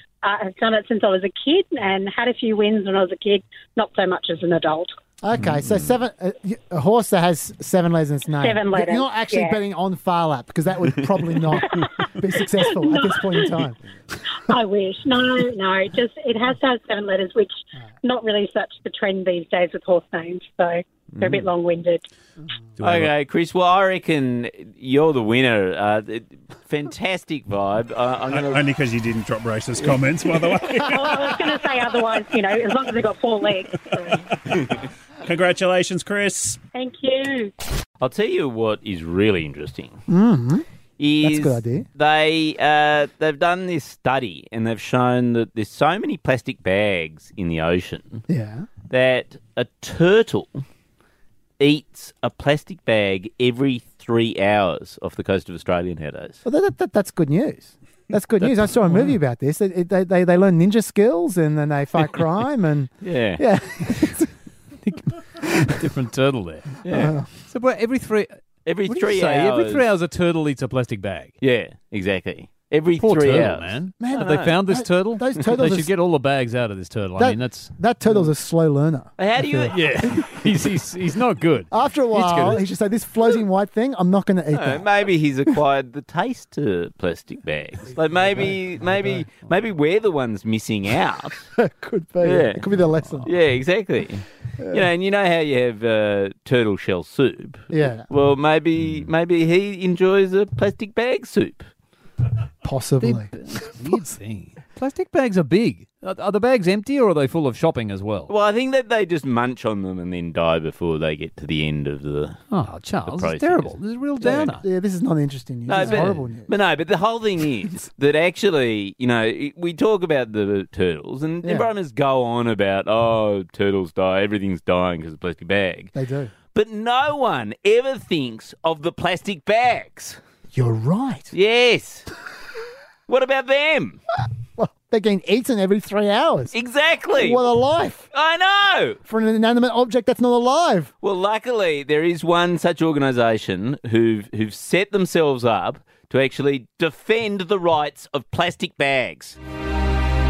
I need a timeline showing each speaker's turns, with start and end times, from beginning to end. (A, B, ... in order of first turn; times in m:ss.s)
0:00.2-0:04.9 A
0:05.2-0:13.8 B
0:08.4-0:09.6 A
0:11.6-0:13.6 A
0:14.4-0:22.0 A
0:22.8-0:23.1 C
0:22.8-0:28.6 D
0:28.3-0:31.3 E
0:30.8-0:34.2 A
0:34.5-0:36.6 E
0:36.7-0:37.5 A
0:38.0-0:40.0 D
0:40.1-0:40.6 B
0:41.0-0:48.2 D
0:41.2-0:41.8 B
0:48.3-0:48.7 B
0:48.9-0:50.6 D
0:51.6-0:56.4 D
0:56.4-1:04.3 B
0:58.4-0:59.1 C
1:03.0-1:03.4 D
1:04.8-1:06.8 C
1:06.8-1:07.1 D
1:06.9-1:07.3 B
1:07.4-1:11.3 C
1:08.6-1:09.8 D
1:11.4-1:14.5 D
1:13.0-1:17.7 C
1:14.0-1:15.9 B
1:17.2-1:19.7 B
1:19.2-1:20.1 D
1:19.7-1:22.6 C
1:21.7-1:24.9 B
1:24.5-1:31.5 D
1:31.6-1:33.3 B
1:32.2-1:32.6 D
1:33.2-1:41.7 D
1:37.7-1:38.1 B
1:42.6-1:44.1 B
1:43.0-1:48.3 C
1:48.3-1:52.4 D
1:52.5-1:54.6 C
1:53.0-1:53.8 D
1:54.2-1:56.5 B
1:55.7-2:05.9 D
1:55.8-1:56.2 C
2:01.4-2:01.7 B
2:05.9-2:06.3 B
2:06.5-2:10.2 D
2:10.5-2:11.3 B
2:11.3-2:12.1 D
2:13.1-2:14.0 D
2:14.6-2:16.5 B
2:16.5-2:17.5 D
2:17.2-2:18.1 B
2:18.1-2:19.0 D
2:19.1-2:20.9 B
2:21.0-2:29.4 D